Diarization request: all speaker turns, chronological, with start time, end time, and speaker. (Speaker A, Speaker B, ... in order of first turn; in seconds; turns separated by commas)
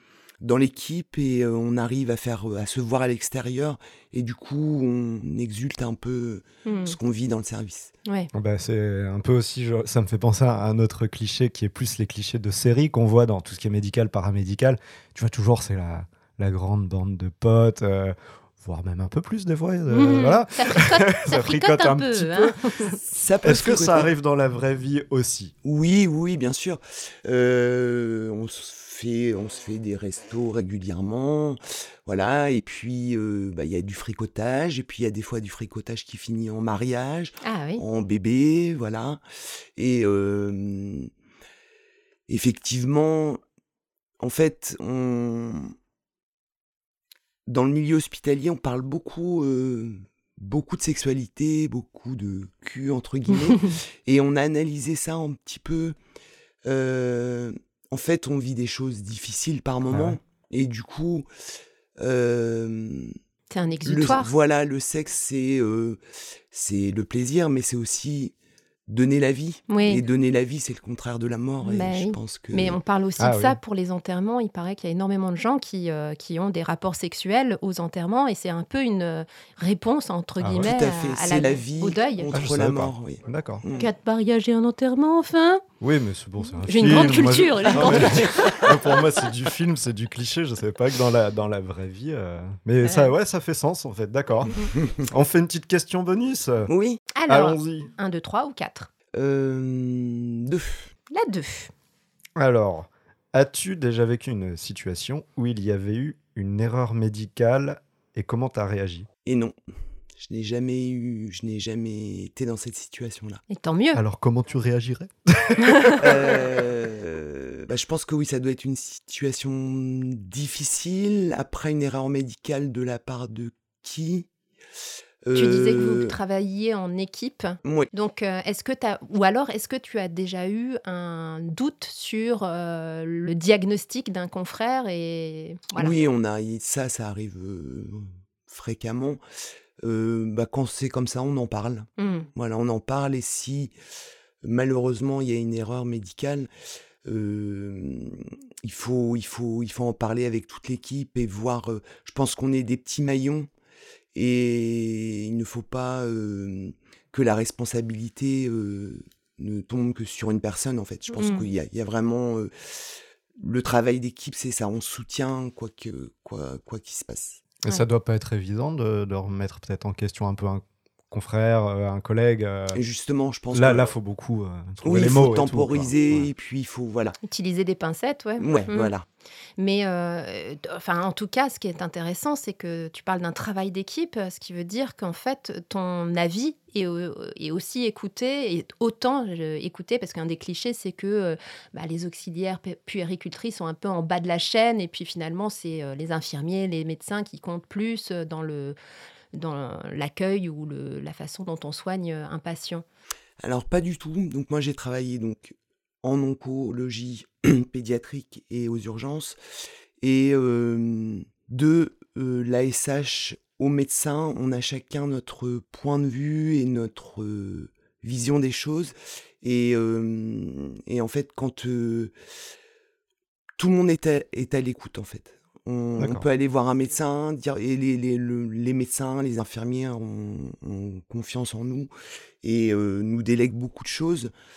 Speaker A: 0.4-7.9, Speaker B: 6.7-7.0, Speaker C: 8.3-22.6, Speaker B: 19.9-23.0, Speaker A: 23.0-24.1, Speaker C: 23.4-25.5, Speaker A: 25.6-39.2, Speaker B: 37.4-37.8, Speaker A: 39.8-41.1, Speaker A: 42.3-43.4, Speaker A: 44.2-45.7, Speaker A: 47.5-56.0, Speaker A: 56.7-61.3, Speaker C: 59.9-60.2, Speaker A: 62.0-63.2, Speaker B: 63.5-64.3, Speaker A: 63.9-66.0, Speaker A: 66.5-68.3, Speaker A: 68.9-72.8, Speaker B: 69.7-70.0, Speaker B: 71.6-82.3, Speaker C: 73.2-73.6, Speaker C: 80.4-80.7, Speaker A: 80.6-83.9, Speaker C: 82.3-83.6, Speaker B: 83.8-85.6, Speaker C: 85.8-96.7, Speaker B: 86.6-88.7, Speaker A: 88.0-88.6, Speaker B: 92.8-93.1, Speaker A: 96.7-97.0, Speaker B: 97.2-98.9, Speaker C: 97.3-97.9, Speaker A: 99.1-100.9, Speaker B: 101.1-101.7, Speaker C: 102.4-109.1, Speaker A: 109.3-109.6, Speaker A: 110.2-113.4, Speaker B: 113.5-114.0, Speaker C: 113.9-116.2, Speaker A: 116.0-124.3, Speaker A: 125.2-126.2, Speaker B: 125.3-135.9, Speaker A: 127.6-127.9, Speaker A: 135.8-139.2, Speaker A: 139.8-143.7, Speaker B: 142.0-142.3, Speaker A: 144.4-146.5, Speaker A: 147.1-153.5, Speaker A: 154.2-167.4, Speaker B: 161.1-161.5, Speaker C: 167.6-172.8, Speaker A: 172.7-173.9, Speaker C: 173.5-176.3, Speaker A: 174.8-177.2, Speaker B: 177.2-178.9, Speaker A: 178.4-179.1, Speaker B: 179.6-198.8, Speaker B: 199.3-202.8, Speaker A: 203.4-209.4, Speaker A: 210.0-222.1, Speaker A: 223.6-231.9, Speaker C: 226.0-226.3, Speaker A: 232.4-234.3